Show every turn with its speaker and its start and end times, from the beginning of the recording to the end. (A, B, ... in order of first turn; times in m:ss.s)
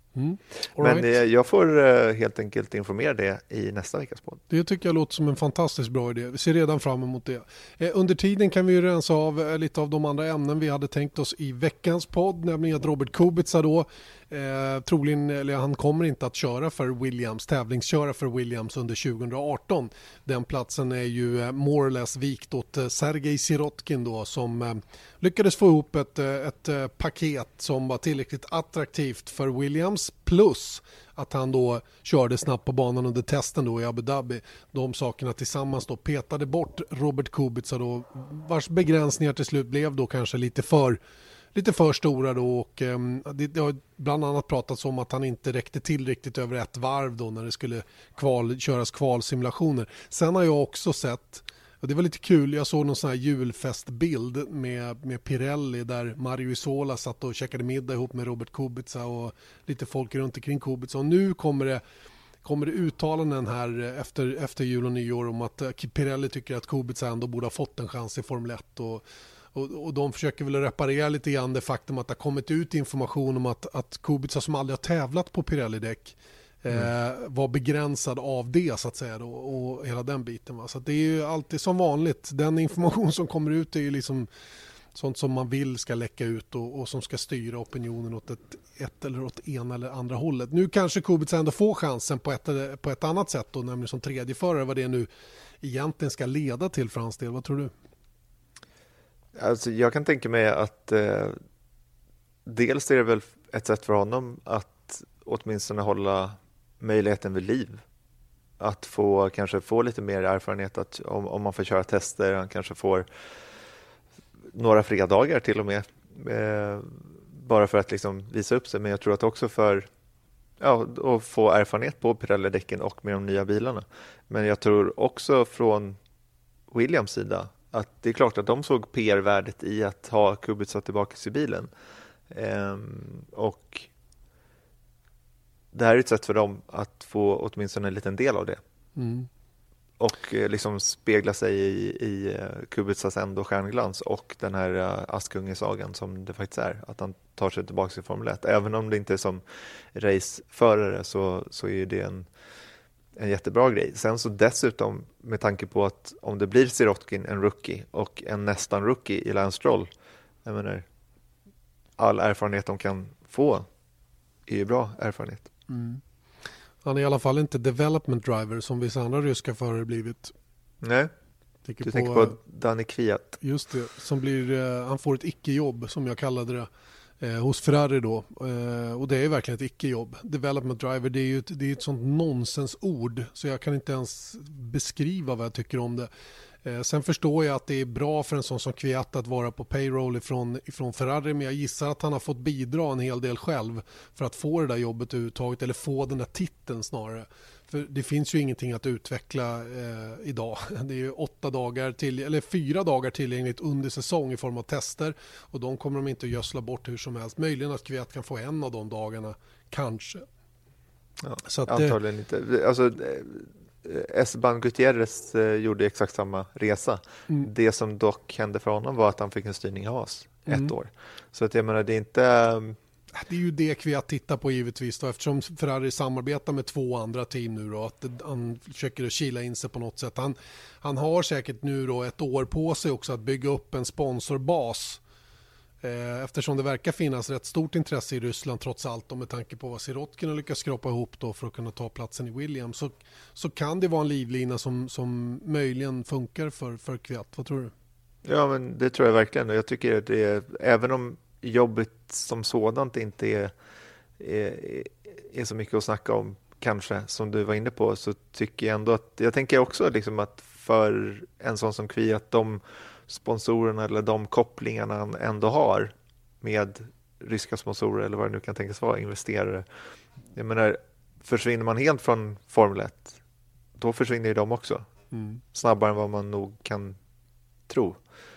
0:00.2-0:01.1 A
0:00.8-0:04.4 B
0:04.5-0:41.0 A
0:41.5-1:01.8 A
1:02.4-1:09.0 A
1:09.5-1:24.3 A
1:24.9-1:35.1 A
1:35.6-1:37.7 A
1:39.4-1:41.4 B
1:42.4-1:47.8 B
1:48.6-1:53.1 B
1:54.5-1:59.9 B
2:00.6-2:06.0 B
2:06.7-2:11.7 B
2:12.3-2:13.9 B
2:15.7-2:18.6 B
2:19.0-2:19.3 A
2:20.0-2:29.4 B
2:29.9-2:32.3 B
2:33.2-2:39.9 B
2:40.4-2:40.8 B
2:42.0-2:43.7 B
2:44.5-2:45.5 B
2:45.7-2:46.0 A
2:46.8-2:50.3 A
2:50.8-2:51.1 B
2:51.6-2:52.4 A
2:51.8-2:53.4 B
2:53.4-2:56.7 A
2:57.2-3:06.1 A
3:06.6-3:30.2 A
3:31.2-3:42.8 B
3:31.4-3:32.0 A
3:40.5-3:40.7 A
3:43.1-3:55.0 A
3:55.8-4:07.7 A
4:08.2-4:13.5 B
4:14.2-4:29.6 B
4:30.3-4:33.2 B
4:33.8-4:34.8 B
4:35.1-4:35.4 A
4:35.5-4:37.0 B
4:37.7-4:38.0 B